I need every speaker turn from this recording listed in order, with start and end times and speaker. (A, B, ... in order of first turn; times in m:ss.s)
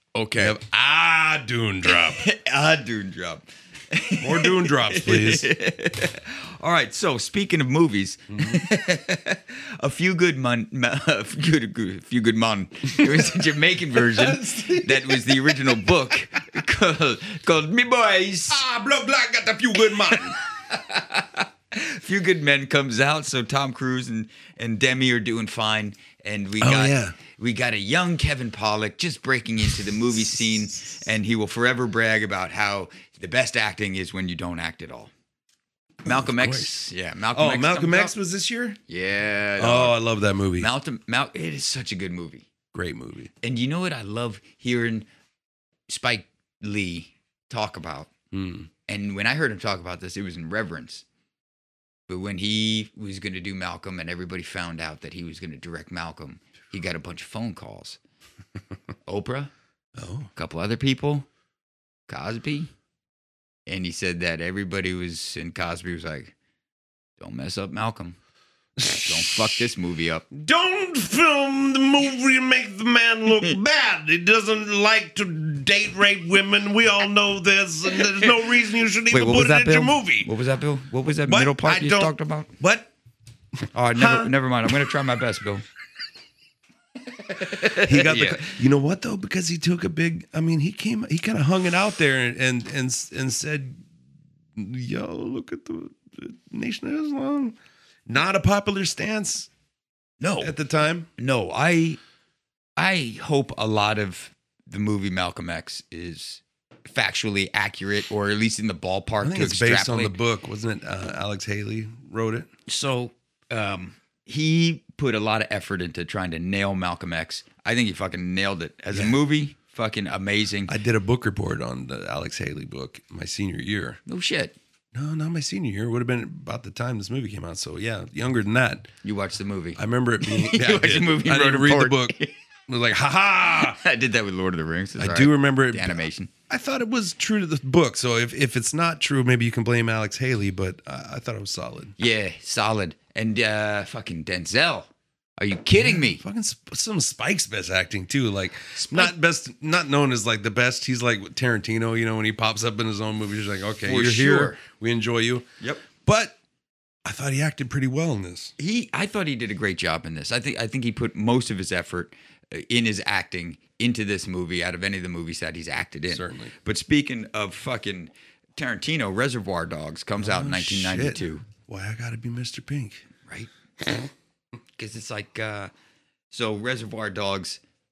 0:00.1-0:00.6 A
0:00.4-0:02.2 B
0:01.8-0:18.6 A
0:04.2-0:05.5 B
0:08.3-0:08.6 B
0:13.9-0:15.9 B
0:18.5-0:20.4 B
0:20.3-0:35.1 A
0:26.6-0:27.2 B
0:36.0-0:38.1 A
0:36.0-0:38.8 B
0:38.9-0:40.0 A
0:39.6-0:40.7 B
0:40.6-0:42.5 A
0:42.7-0:43.3 B
0:43.4-0:45.0 A
0:45.9-0:48.1 A
0:48.3-0:48.7 B
0:48.9-0:51.0 A
0:52.1-0:58.0 A
0:59.1-0:59.5 A
1:00.0-1:00.3 B
1:00.3-1:01.3 A
1:02.1-1:02.7 A
1:03.7-1:06.3 A
1:07.2-1:08.2 A
1:08.8-1:09.6 B
1:09.0-1:10.2 A
1:10.3-1:20.3 B
1:13.3-1:13.6 A
1:19.1-1:22.5 A
1:21.2-1:22.9 B
1:23.7-1:25.6 A
1:23.9-1:24.3 B
1:27.3-1:28.5 A
1:27.6-1:33.8 B
1:34.6-1:39.5 B
1:40.2-1:40.6 A
1:40.4-1:41.1 B
1:41.2-1:42.0 A
1:42.8-1:50.2 A
1:49.2-1:52.5 B
1:52.7-2:00.7 A
1:58.9-1:59.2 B
2:00.6-2:04.0 B
2:04.1-2:04.6 A
2:04.9-2:08.9 B
2:09.0-2:12.3 A
2:09.8-2:12.2 B
2:12.7-2:13.8 B
2:13.5-2:16.3 A
2:15.0-2:21.9 B
2:22.0-2:26.2 A
2:25.7-2:36.4 B
2:28.7-2:29.1 A
2:33.8-2:34.6 A
2:37.0-2:38.5 B
2:38.6-2:51.4 A
2:46.1-2:46.5 B
2:50.2-2:53.1 B
2:54.8-2:55.7 A
2:56.3-2:57.6 A